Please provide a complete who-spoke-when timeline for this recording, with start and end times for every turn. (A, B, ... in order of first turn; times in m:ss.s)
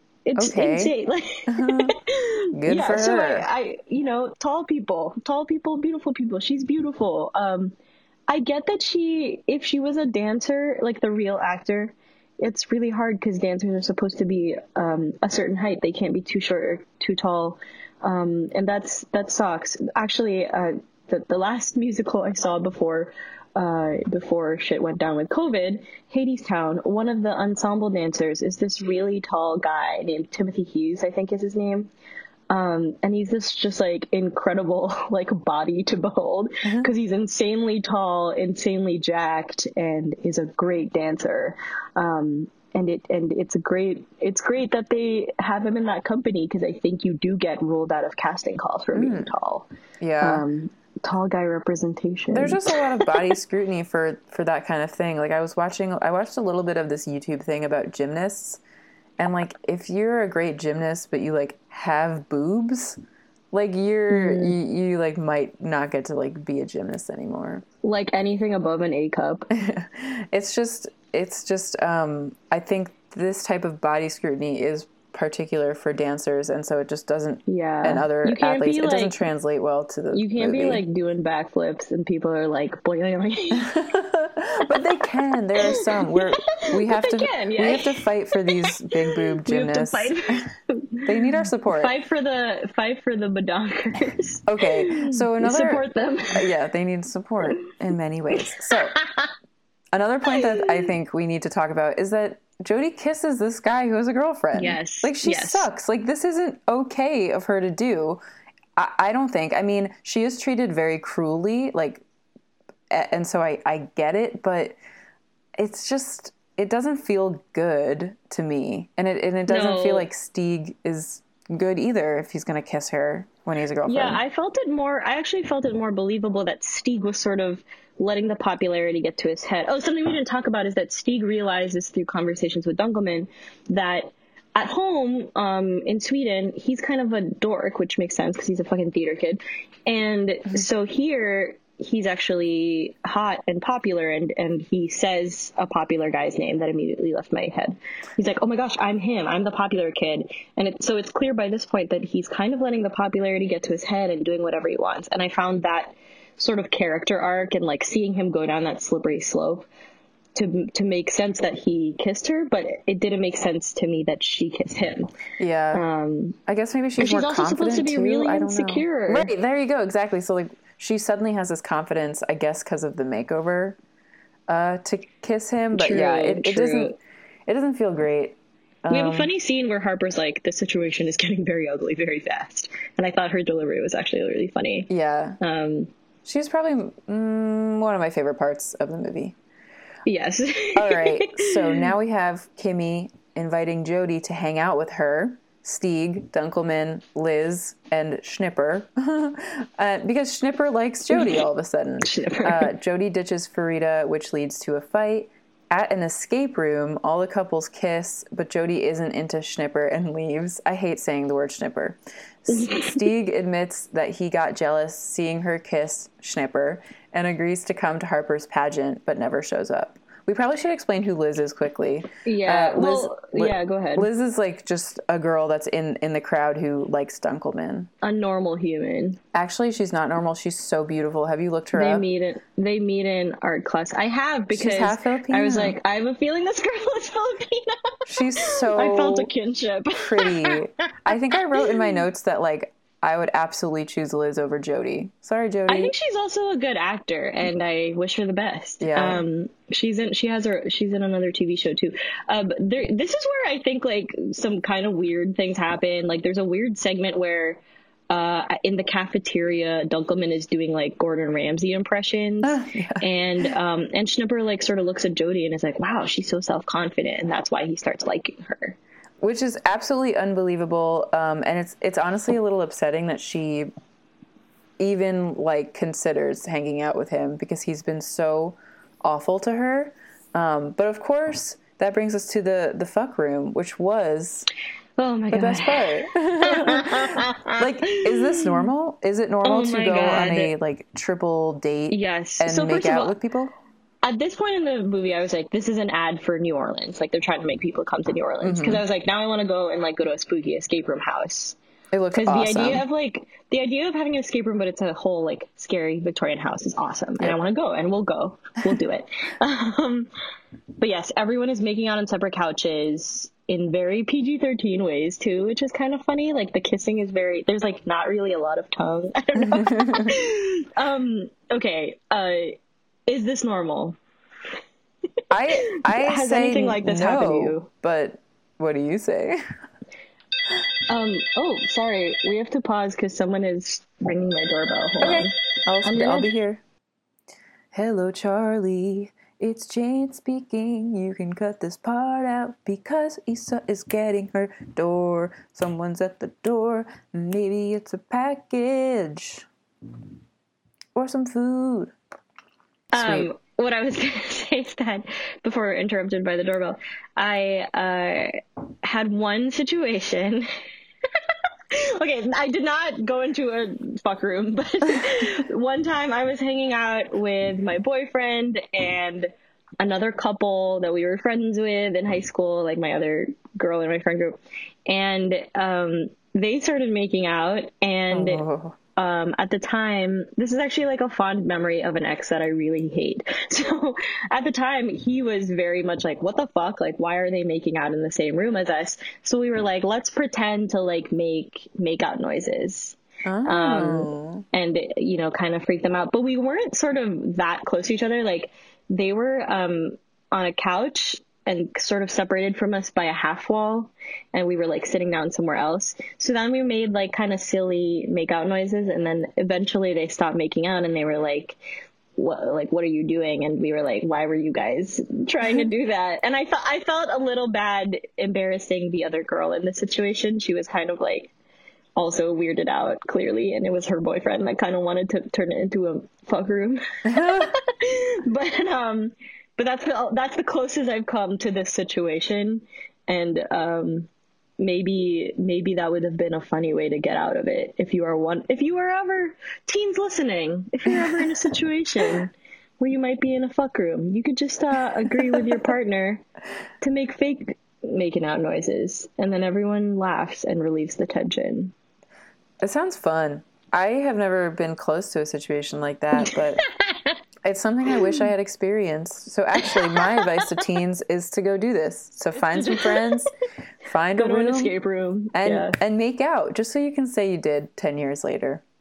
0:00.3-0:07.8 A
0:00.4-0:00.9 B
0:01.5-0:02.0 B
0:02.6-0:03.5 B
0:08.3-0:31.9 A
0:32.5-0:49.7 A
0:36.6-0:36.9 B
0:48.9-0:49.3 B
0:50.0-0:50.4 B
0:50.2-0:53.2 A
0:52.3-0:58.6 B
0:59.2-1:03.0 B
1:03.5-1:07.6 B
1:04.1-1:04.6 A
1:07.8-1:09.5 A
1:09.5-1:20.8 B
1:17.5-1:19.2 A
1:20.1-1:23.8 A
1:23.6-1:30.1 B
1:25.6-1:28.0 A
1:28.5-1:36.4 A
1:31.0-1:32.0 B
1:34.5-1:39.0 B
1:38.4-1:39.3 A
1:39.9-1:48.2 B
1:40.3-1:40.9 A
1:44.5-1:45.7 A
1:48.8-1:52.0 B
1:52.9-1:54.8 B
1:55.6-2:04.2 B
1:59.5-2:00.1 A
2:03.8-2:39.7 A
2:40.4-2:45.1 A
2:45.4-2:45.8 B
2:45.7-2:46.4 A
2:46.5-2:53.8 B
2:47.0-2:49.3 A
2:54.5-2:57.0 B
2:55.7-2:57.0 A
2:57.5-2:59.3 B
2:58.9-3:05.9 A
3:04.9-3:05.4 B
3:06.2-3:09.4 B
3:10.1-3:11.9 A
3:10.8-3:47.9 B
3:21.2-3:21.4 A
3:22.0-3:22.7 A
3:32.5-3:33.0 A
3:42.2-3:44.1 A
3:48.0-3:49.2 A
3:49.3-3:52.1 B
3:51.7-4:00.6 A
3:54.5-3:55.8 B
3:58.1-3:59.3 B
4:00.0-4:05.9 B
4:05.7-4:28.8 A
4:08.8-4:09.2 B
4:22.4-4:23.0 B
4:29.2-4:33.7 B
4:34.8-4:44.5 B
4:45.0-4:48.7 A
4:45.3-4:53.5 B
4:49.4-4:50.5 A
4:51.9-4:53.2 A
4:54.0-5:01.6 A
4:58.4-4:58.8 B
5:01.9-5:02.8 B
5:02.2-5:10.1 A
5:10.8-5:24.0 A
5:19.4-5:20.1 B
5:25.3-5:29.4 B
5:25.6-5:27.7 A
5:30.9-5:36.3 A
5:35.0-5:36.6 B
5:37.7-5:49.5 B
5:51.0-5:52.0 B
5:52.9-5:53.3 B
5:52.9-6:00.5 A
6:01.7-6:51.6 A
6:18.1-6:18.8 B
6:33.3-6:34.4 B
6:52.2-7:01.3 A
7:02.0-7:26.2 A
7:07.1-7:07.5 B
7:20.9-7:21.2 B
7:25.1-7:25.6 B
7:26.8-7:31.8 A
7:32.6-7:36.6 B
7:36.2-7:37.2 A
7:37.4-7:43.3 B
7:39.6-7:40.6 A
7:42.6-7:43.2 A
7:43.8-7:44.7 B
7:44.2-7:45.8 A
7:45.3-7:48.6 B